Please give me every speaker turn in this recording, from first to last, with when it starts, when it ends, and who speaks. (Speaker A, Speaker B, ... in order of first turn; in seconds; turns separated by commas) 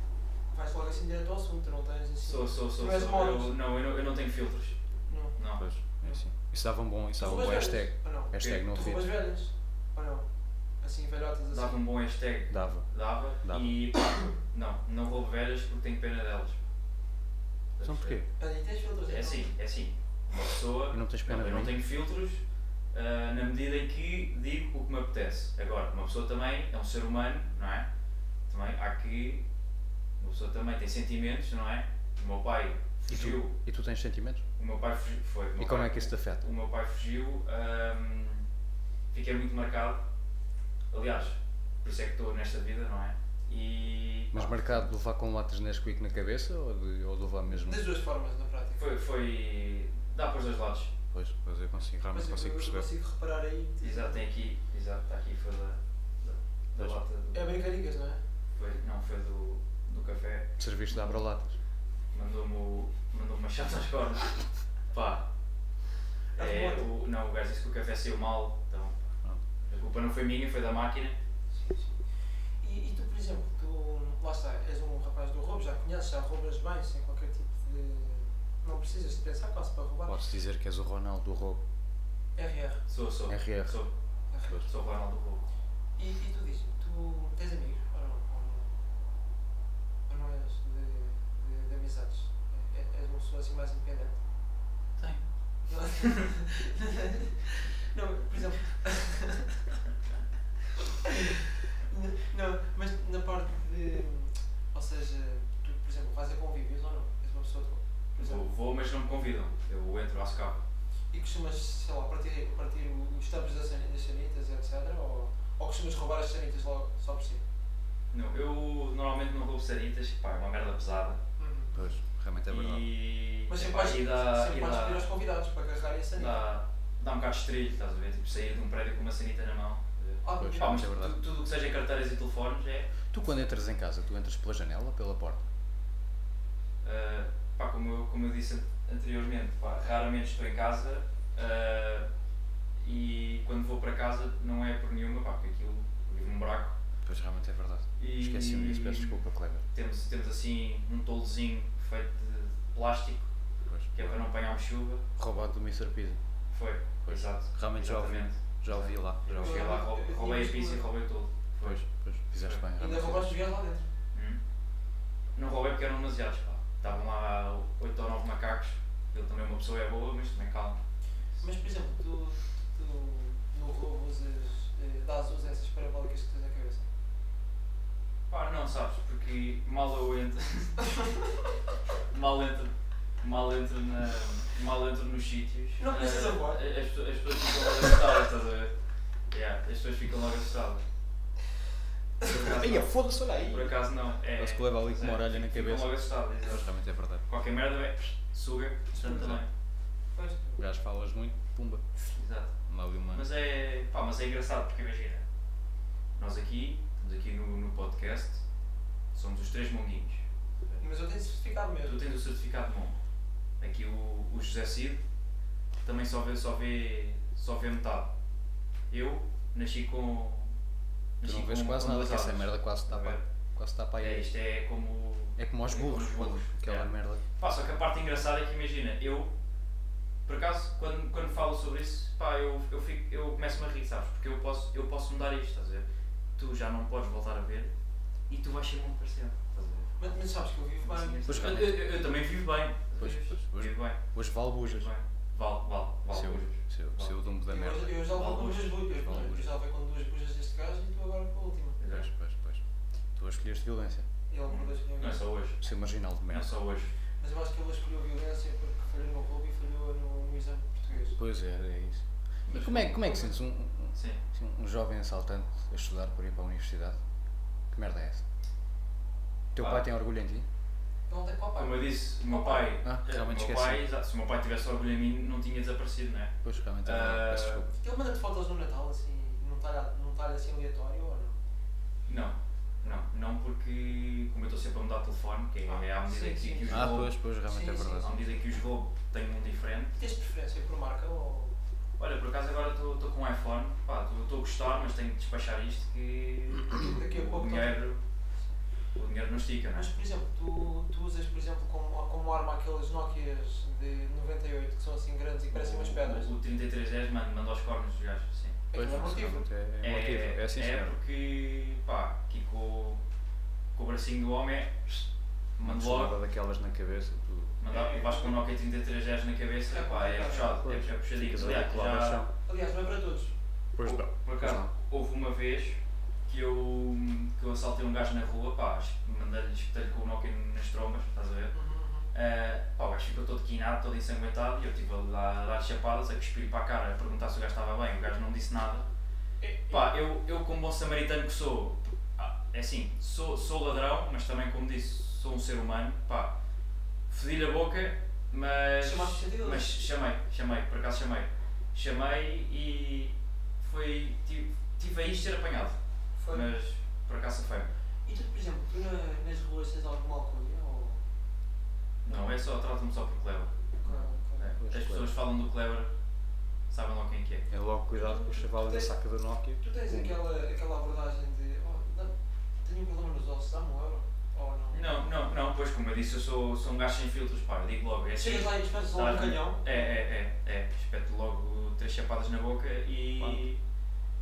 Speaker A: 0.5-3.6, Speaker B: 2.2-4.8, Speaker A: 5.1-5.4, Speaker B: 5.4-5.6, Speaker C: 5.6-9.1, Speaker A: 7.2-10.3, Speaker B: 8.4-8.7, Speaker A: 10.8-11.8, Speaker B: 11.5-16.6, Speaker C: 12.5-12.9, Speaker C: 13.4-13.8, Speaker B: 17.8-18.2, Speaker C: 17.8-18.3, Speaker A: 18.4-19.4, Speaker B: 19.1-27.9, Speaker C: 20.9-21.7, Speaker B: 28.5-29.4, Speaker B: 30.2-33.5, Speaker C: 33.1-34.5, Speaker B: 34.6-38.5, Speaker C: 35.6-36.5, Speaker B: 39.1-40.0, Speaker B: 40.9-44.6, Speaker C: 44.3-47.8, Speaker A: 47.5-48.8, Speaker B: 48.8-50.9, Speaker C: 51.1-52.9, Speaker A: 52.1-54.2, Speaker B: 53.8-57.4, Speaker A: 57.3-58.2, Speaker B: 58.6-61.1, Speaker C: 60.6-61.6, Speaker B: 62.1-65.2, Speaker B: 66.3-69.1, Speaker A: 66.4-66.9, Speaker B: 69.6-71.2, Speaker A: 71.5-80.2, Speaker C: 80.1-81.6, Speaker A: 82.3-82.8, Speaker B: 82.9-83.9, Speaker C: 83.3-83.8, Speaker A: 84.3-84.6, Speaker B: 84.6-85.4, Speaker A: 86.0-88.8, Speaker A: 90.1-94.1, Speaker B: 95.0-95.3, Speaker A: 95.7-99.6, Speaker A: 101.0-108.5, Speaker B: 108.2-110.6, Speaker A: 111.1-117.4, Speaker B: 118.1-121.2, Speaker A: 121.4-121.9, Speaker C: 121.7-122.9, Speaker B: 122.5-125.1, Speaker A: 123.5-126.4, Speaker B: 126.2-132.9, Speaker A: 130.2-130.8, Speaker C: 130.4-131.2, Speaker C: 133.1-135.5, Speaker B: 136.8-142.1, Speaker B: 142.8-146.8, Speaker C: 147.1-149.7, Speaker B: 148.0-149.2, Speaker B: 149.7-153.3, Speaker C: 153.7-154.2, Speaker B: 153.9-155.0, Speaker C: 155.2-156.2, Speaker B: 156.5-162.6, Speaker C: 157.1-159.7, Speaker A: 159.4-160.9, Speaker C: 161.6-163.3, Speaker A: 162.8-163.9, Speaker B: 164.1-164.4, Speaker B: 165.4-170.8, Speaker A: 171.4-176.9, Speaker B: 178.3-181.0, Speaker B: 182.1-188.7, Speaker A: 185.8-186.7, Speaker B: 189.3-190.8, Speaker B: 192.2-196.7, Speaker C: 192.3-193.8, Speaker C: 194.3-197.2, Speaker B: 197.3-199.5, Speaker C: 199.0-199.4, Speaker A: 199.0-199.3, Speaker A: 200.1-200.6, Speaker C: 200.6-201.9, Speaker B: 202.2-202.5, Speaker C: 202.7-203.3, Speaker B: 203.1-205.2, Speaker B: 206.2-208.4, Speaker B: 209.1-210.8, Speaker A: 210.8-212.0, Speaker B: 211.8-213.0, Speaker B: 213.6-215.0, Speaker B: 215.8-218.1, Speaker B: 218.9-220.5, Speaker B: 221.2-223.2, Speaker C: 221.2-224.3, Speaker B: 224.0-229.3, Speaker C: 225.4-227.2, Speaker B: 230.3-235.9, Speaker B: 236.4-237.7, Speaker B: 238.3-240.0, Speaker A: 240.0-241.6, Speaker B: 240.8-247.2, Speaker C: 241.3-241.9, Speaker C: 243.0-244.9, Speaker C: 246.1-248.1, Speaker A: 247.5-251.8, Speaker B: 248.0-248.8, Speaker C: 248.8-249.5, Speaker B: 251.8-252.1, Speaker C: 251.9-252.6, Speaker C: 253.2-254.1, Speaker A: 254.3-255.2, Speaker B: 254.5-255.6, Speaker C: 255.6-256.6, Speaker B: 256.3-256.9, Speaker A: 257.2-261.2, Speaker C: 261.1-267.0, Speaker B: 262.5-263.3, Speaker B: 263.9-264.2, Speaker C: 267.7-268.2, Speaker C: 269.5-270.5, Speaker B: 269.6-269.9, Speaker A: 271.1-272.7, Speaker B: 271.6-277.6, Speaker C: 272.8-273.9, Speaker C: 276.4-277.7, Speaker A: 277.7-281.4, Speaker B: 282.1-287.2, Speaker A: 285.7-288.2, Speaker C: 286.7-288.1, Speaker B: 288.0-290.0, Speaker A: 290.0-291.5, Speaker B: 292.0-298.0, Speaker A: 296.8-297.8, Speaker B: 298.9-299.9, Speaker A: 299.8-306.3, Speaker B: 305.5-308.6, Speaker A: 308.7-309.4, Speaker C: 308.7-311.0, Speaker B: 309.8-313.0, Speaker B: 313.8-316.1, Speaker C: 315.6-317.6, Speaker B: 317.6-322.2, Speaker A: 317.7-318.4, Speaker A: 319.7-320.6, Speaker C: 320.6-322.3, Speaker A: 322.5-323.4, Speaker C: 323.8-324.7, Speaker B: 323.8-331.5, Speaker A: 331.5-332.1, Speaker B: 332.1-338.9, Speaker A: 339.4-339.9, Speaker B: 339.7-346.4, Speaker B: 347.1-355.8, Speaker A: 348.8-349.7, Speaker A: 356.2-356.5, Speaker B: 356.3-357.7, Speaker A: 358.1-361.0, Speaker B: 362.1-365.9, Speaker A: 363.8-364.5, Speaker C: 364.6-365.2, Speaker B: 366.7-367.5, Speaker C: 367.5-370.2, Speaker A: 367.9-368.9, Speaker A: 369.6-375.0, Speaker B: 374.7-383.6, Speaker A: 378.2-379.9, Speaker C: 383.2-383.5